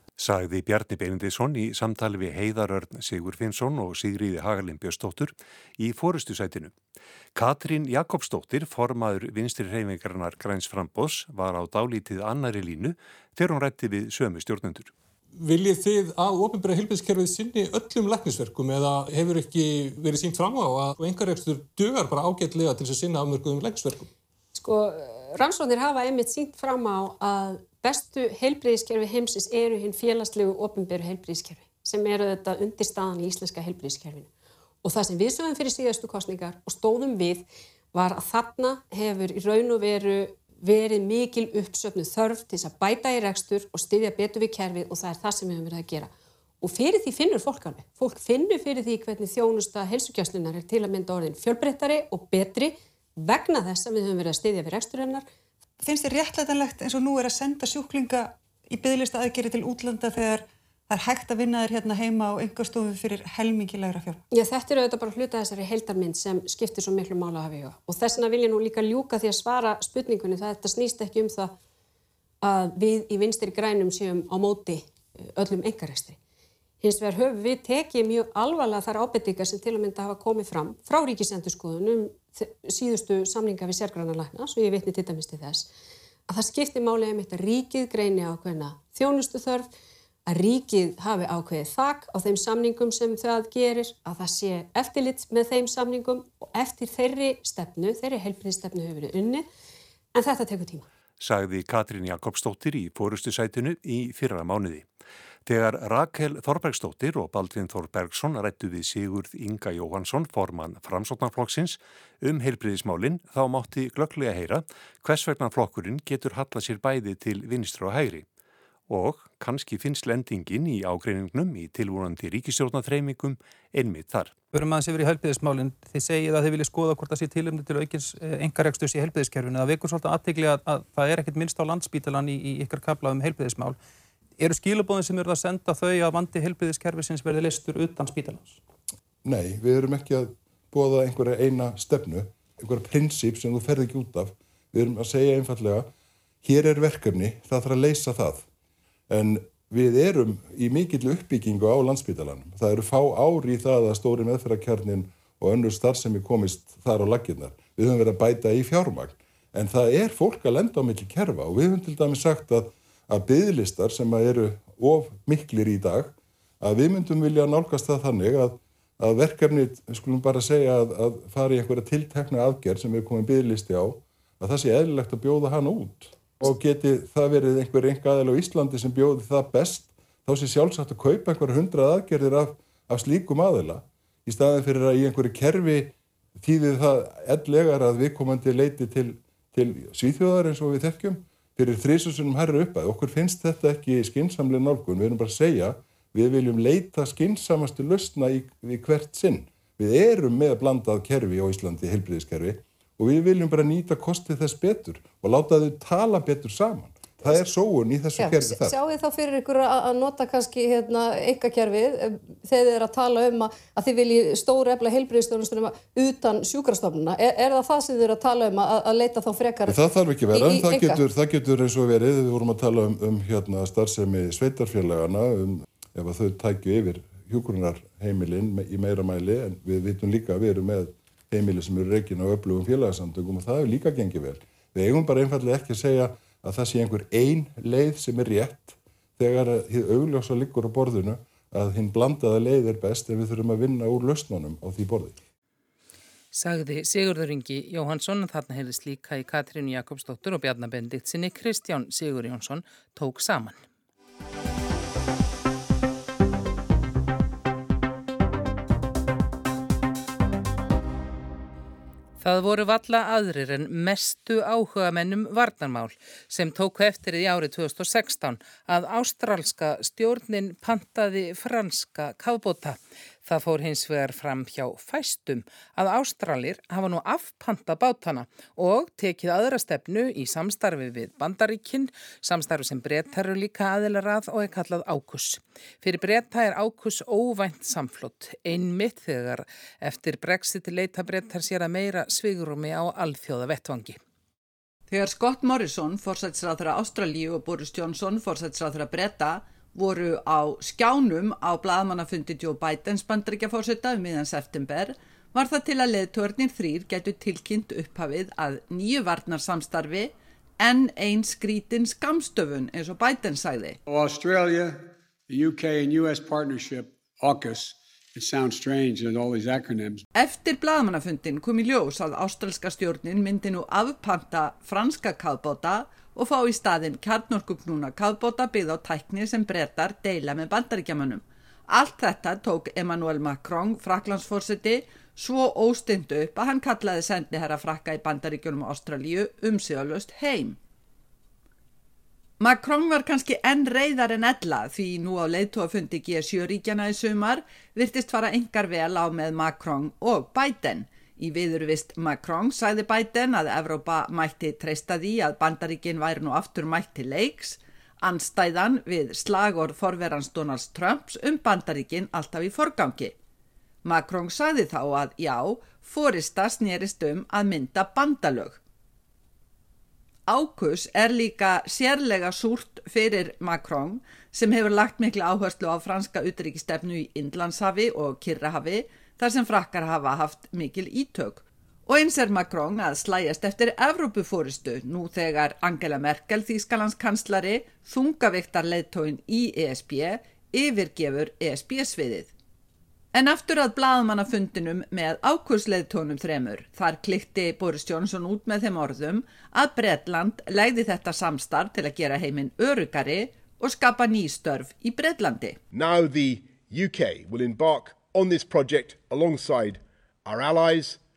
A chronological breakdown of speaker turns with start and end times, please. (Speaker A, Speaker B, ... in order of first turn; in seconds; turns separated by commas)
Speaker A: 0.2-6.7, Speaker A: 7.3-14.9, Speaker B: 15.4-24.1, Speaker C: 24.5-34.3, Speaker C: 34.8-55.3, Speaker D: 55.9-64.2, Speaker C: 64.3-71.6, Speaker C: 72.4-76.2, Speaker C: 76.8-85.7, Speaker C: 86.3-89.7, Speaker C: 90.3-99.5, Speaker C: 100.1-100.9, Speaker A: 101.2-104.8, Speaker A: 105.5-118.2, Speaker A: 118.9-124.4, Speaker E: 124.5-133.8, Speaker E: 134.4-138.6, Speaker F: 139.2-145.9, Speaker F: 146.4-148.5, Speaker F: 149.1-208.7, Speaker G: 208.2-219.8, Speaker F: 219.7-245.2, Speaker G: 220.3-221.0, Speaker H: 246.3-253.6, Speaker H: 262.2-294.0, Speaker I: 294.9-313.8, Speaker J: 313.9-320.1, Speaker I: 320.1-340.6, Speaker I: 342.4-363.1, Speaker I: 363.9-368.6, Speaker I: 370.3-392.3, Speaker I: 393.1-405.6, Speaker K: 405.7-411.0